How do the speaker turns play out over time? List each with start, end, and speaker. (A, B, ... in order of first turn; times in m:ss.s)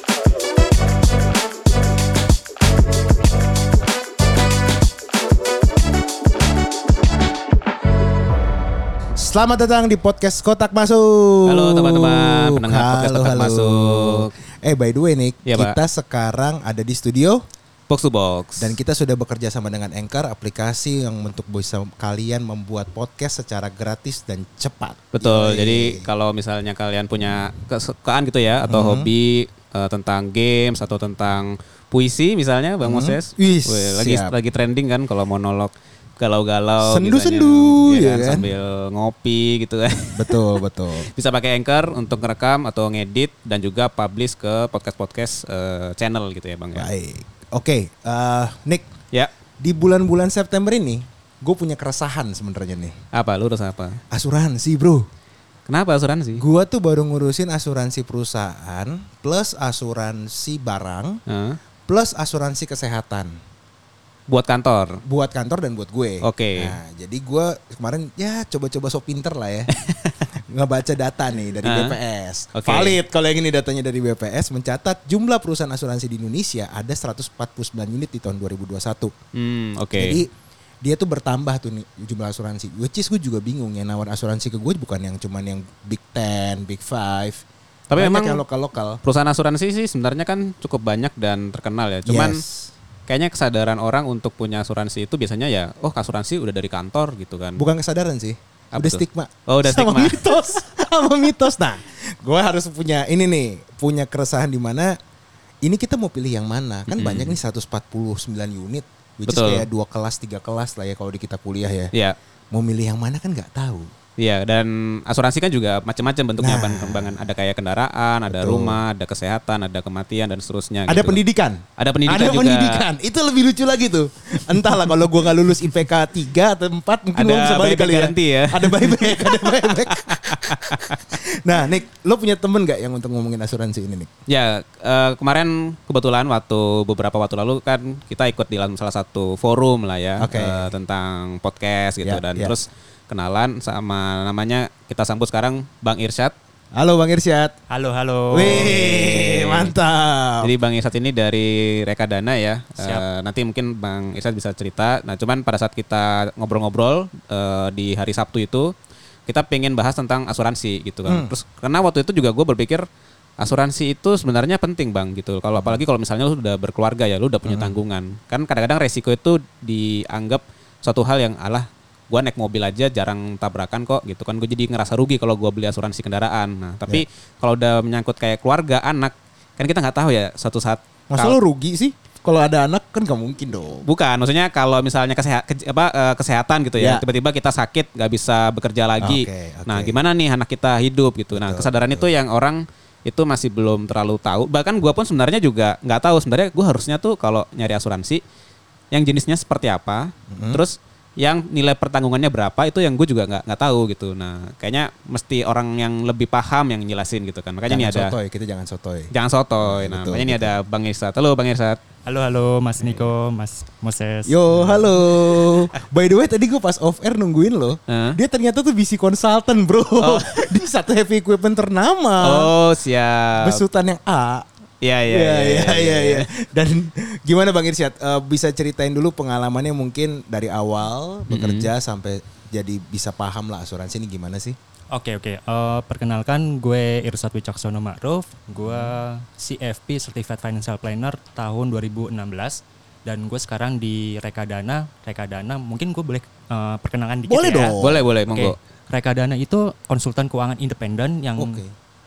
0:09.2-0:17.4 A
0:11.5-0:14.3 B
0:15.5-0:15.8 B
0:17.9-0:18.8 B
0:18.6-0:26.1 A
0:25.1-0:40.4 B
0:28.7-0:29.1 A
0:32.8-0:34.3 A
0:36.8-0:38.5 A
0:40.2-0:41.1 A
0:41.1-0:46.9 B
0:46.8-0:48.9 A
0:49.6-0:53.0 A
0:53.1-0:54.0 B
0:54.1-0:55.1 A
0:55.7-0:56.4 B
0:56.4-1:01.2 A
1:01.3-1:01.6 B
1:01.9-1:03.4 A
1:04.3-1:05.0 B
1:05.1-1:09.7 A
1:06.2-1:06.8 B
1:09.8-1:10.2 B
1:10.5-1:19.1 A
1:11.6-1:12.0 B
1:12.6-1:13.0 B
1:19.3-1:20.2 B
1:20.0-1:20.3 A
1:20.8-1:27.4 A
1:27.9-1:28.4 B
1:27.9-1:29.0 A
1:29.0-1:32.4 B
1:32.1-1:32.7 A
1:33.1-1:37.6 B
1:37.6-1:45.0 A
1:38.7-1:40.5 B
1:45.6-1:51.9 A
1:46.9-1:47.4 B
1:49.3-1:49.7 B
1:52.5-1:53.9 A
1:54.2-2:01.2 B
1:56.4-1:57.2 A
1:58.3-1:58.8 A
2:00.9-2:14.1 A
2:01.8-2:02.8 B
2:07.2-2:11.2 B
2:14.3-2:26.3 B
2:20.2-2:20.7 A
2:22.0-2:22.6 A
2:26.8-2:27.6 A
2:27.7-2:28.7 C
2:28.3-2:30.5 A
2:28.4-2:29.7 B
2:30.4-2:38.7 B
2:32.8-2:33.0 C
2:39.3-2:42.8 B
2:41.1-2:41.3 A
2:43.4-3:01.4 B
2:45.6-2:45.8 A
2:47.4-2:47.8 A
3:01.1-3:03.9 A
3:03.8-3:18.2 B
3:06.8-3:07.0 A
3:09.0-3:10.0 A
3:11.3-3:12.1 A
3:18.9-3:28.2 B
3:20.3-3:20.6 A
3:27.7-3:30.6 A
3:29.1-3:31.8 B
3:32.1-3:34.4 C
3:34.3-3:42.5 A
3:37.9-3:38.2 B
3:40.0-3:40.5 B
3:42.2-3:43.6 B
3:43.4-3:44.5 A
3:44.8-3:46.3 B
3:45.1-3:54.6 A
3:51.3-3:51.7 B
3:54.9-4:11.6 C
3:58.6-3:58.9 A
4:07.3-4:08.0 A
4:07.8-4:08.6 B
4:11.4-4:11.7 A